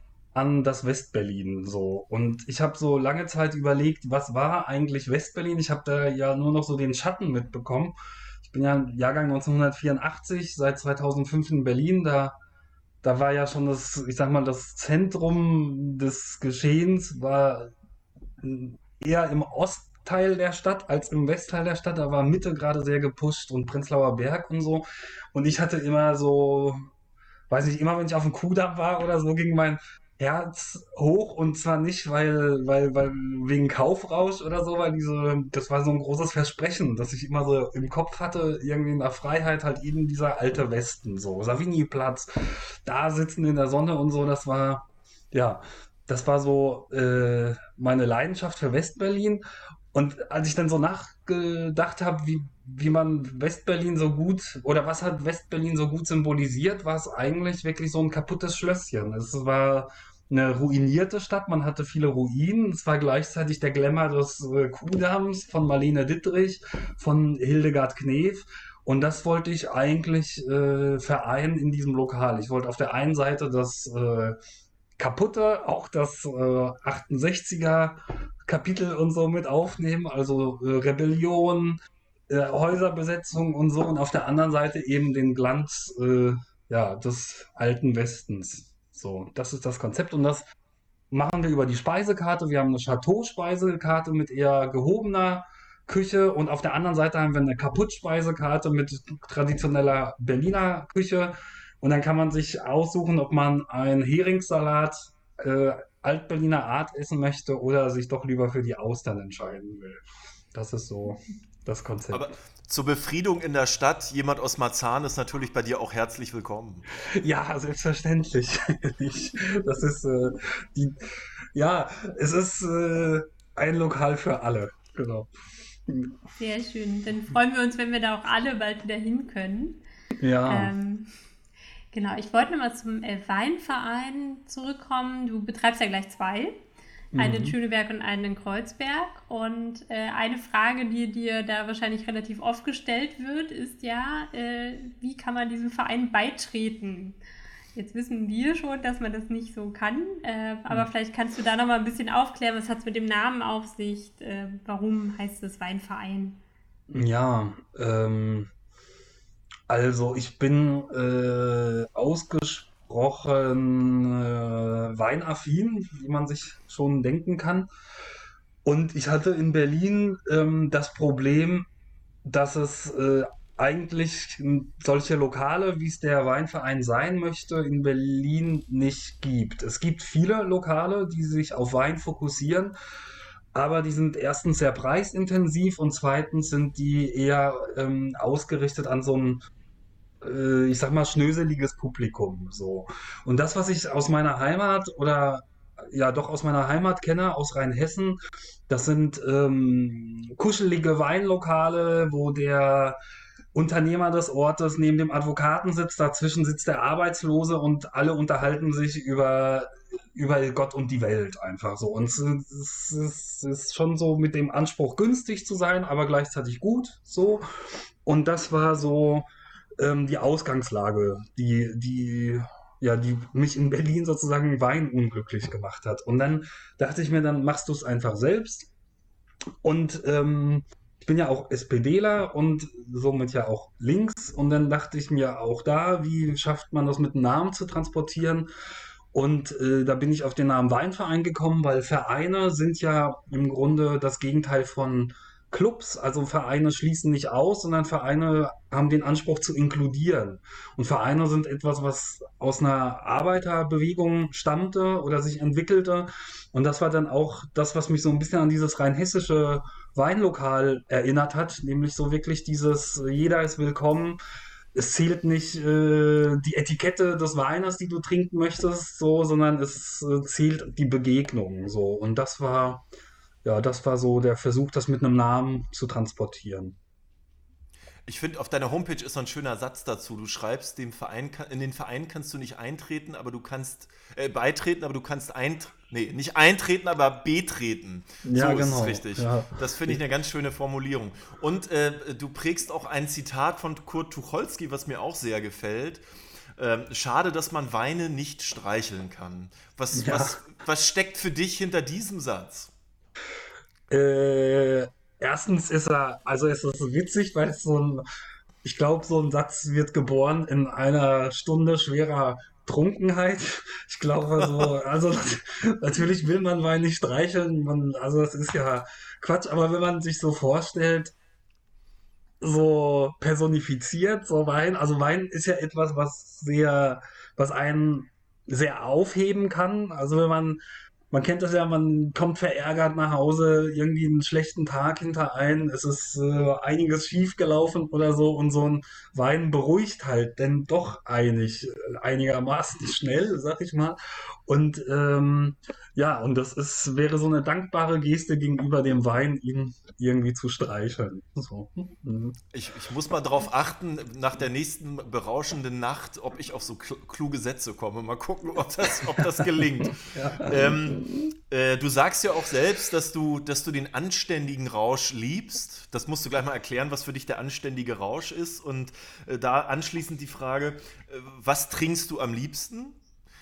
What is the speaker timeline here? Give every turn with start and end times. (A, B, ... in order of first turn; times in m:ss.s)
0:00.3-0:12.4 A
0:13.0-0:17.7 A
0:18.4-0:26.8 A
0:27.5-1:14.4 A
1:15.0-1:21.8 A
1:22.3-1:30.4 A
1:31.1-1:52.3 A
1:52.1-1:56.8 B
1:57.1-2:01.0 A
2:01.5-2:05.3 A
2:05.9-2:06.2 A
2:06.4-2:09.8 C
2:10.2-2:10.7 A
2:10.5-2:11.1 C
2:11.9-2:16.5 C
2:17.1-2:17.5 A
2:17.2-2:27.2 C
2:27.7-2:36.4 C
2:36.9-2:38.5 A
2:39.7-2:47.7 A
2:48.6-2:51.7 A
2:52.2-3:02.7 A
3:03.5-3:09.4 A
3:10.2-3:18.2 A
3:18.7-3:23.0 A
3:23.5-3:39.3 A
3:39.8-3:48.7 A
3:49.6-3:58.5 A
3:59.1-4:24.2 A
4:24.7-4:32.8 A
4:33.4-4:36.8 A
4:38.1-4:56.0 B
4:48.2-4:50.0 A
4:56.6-5:02.7 B
4:59.9-5:00.4 A
5:03.9-5:08.0 A
5:08.6-5:21.1 A
5:22.4-5:52.4 A
5:52.5-6:13.0 B
5:59.0-6:01.2 A